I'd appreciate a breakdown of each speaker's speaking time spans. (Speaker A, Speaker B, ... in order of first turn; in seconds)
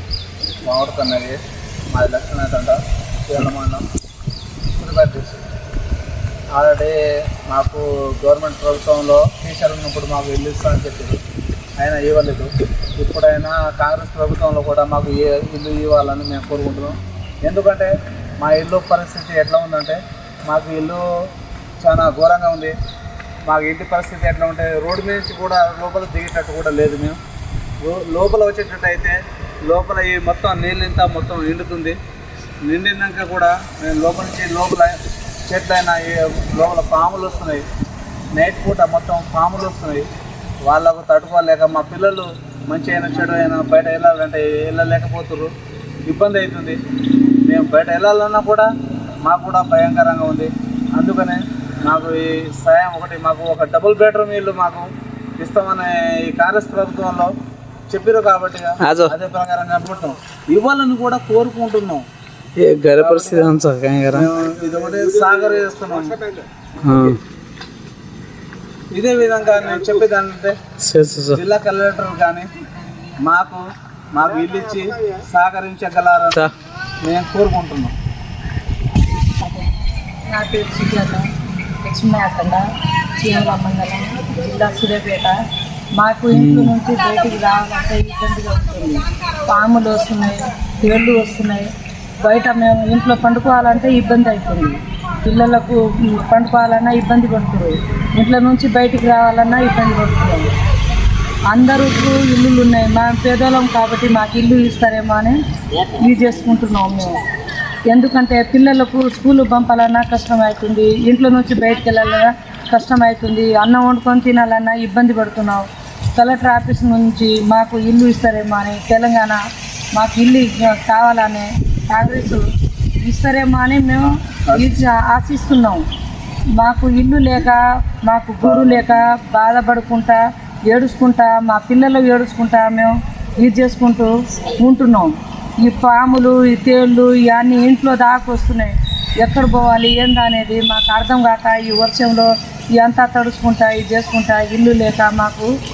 Speaker A: 0.6-1.4, 1.9-3.9, 4.7-5.4, 6.5-11.2, 11.8-21.0, 21.8-22.7, 23.4-27.2, 27.8-32.0, 32.6-35.0, 35.5-37.6, 38.3-40.1, 40.6-45.5, 46.1-46.8, 47.4-48.7, 49.2-57.3, 57.9-62.0, 63.0-63.5, 64.1-66.4, 68.9-70.6, 71.3-72.5, 73.2-76.5, 77.0-77.9
Speaker B: 58.8-59.1, 62.6-64.3, 66.8-67.2, 70.8-71.4, 86.3-86.7
Speaker C: 80.3-81.3, 81.8-85.3, 86.0-100.5, 101.5-107.2, 107.9-119.4, 119.9-122.4, 123.0-125.8, 126.6-145.5